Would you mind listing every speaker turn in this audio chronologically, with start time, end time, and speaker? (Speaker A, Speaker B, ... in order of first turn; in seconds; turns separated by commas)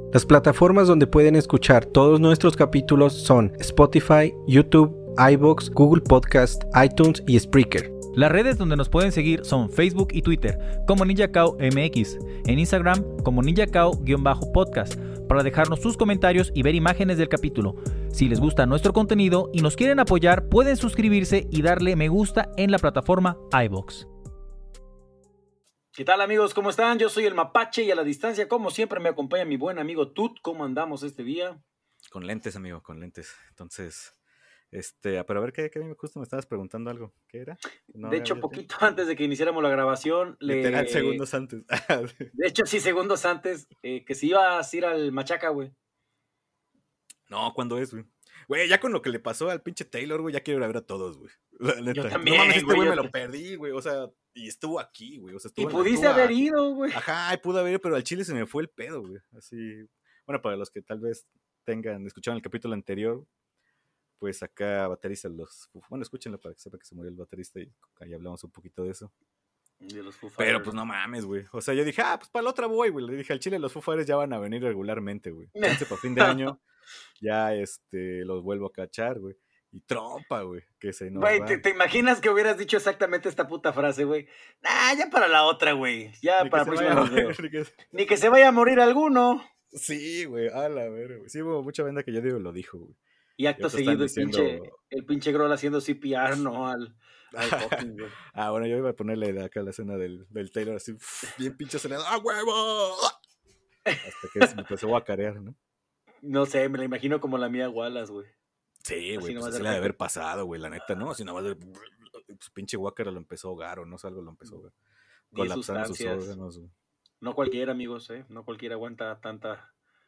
Speaker A: 0.1-8.0, Speaker B: 8.1-24.1, Speaker C: 25.9-31.6, Speaker D: 32.1-34.1, Speaker D: 34.7-38.6, Speaker C: 38.0-41.2, Speaker D: 40.5-42.3, Speaker C: 42.3-45.7, Speaker D: 47.3-56.4, Speaker C: 51.9-53.1, Speaker C: 55.6-57.0, Speaker D: 56.9-63.3, Speaker D: 64.2-69.1, Speaker C: 69.8-70.8, Speaker D: 70.4-76.6, Speaker C: 75.6-76.6, Speaker D: 77.2-81.6, Speaker C: 81.1-87.4, Speaker D: 86.4-87.8, Speaker C: 87.9-89.5, Speaker D: 89.7-93.0, Speaker C: 93.4-98.2, Speaker D: 93.6-94.7, Speaker D: 97.3-103.2, Speaker C: 103.9-104.5, Speaker D: 104.0-105.6, Speaker C: 106.2-108.3, Speaker D: 108.8-114.7, Speaker C: 109.2-109.9, Speaker C: 115.3-116.3, Speaker D: 115.3-116.7, Speaker C: 117.2-119.7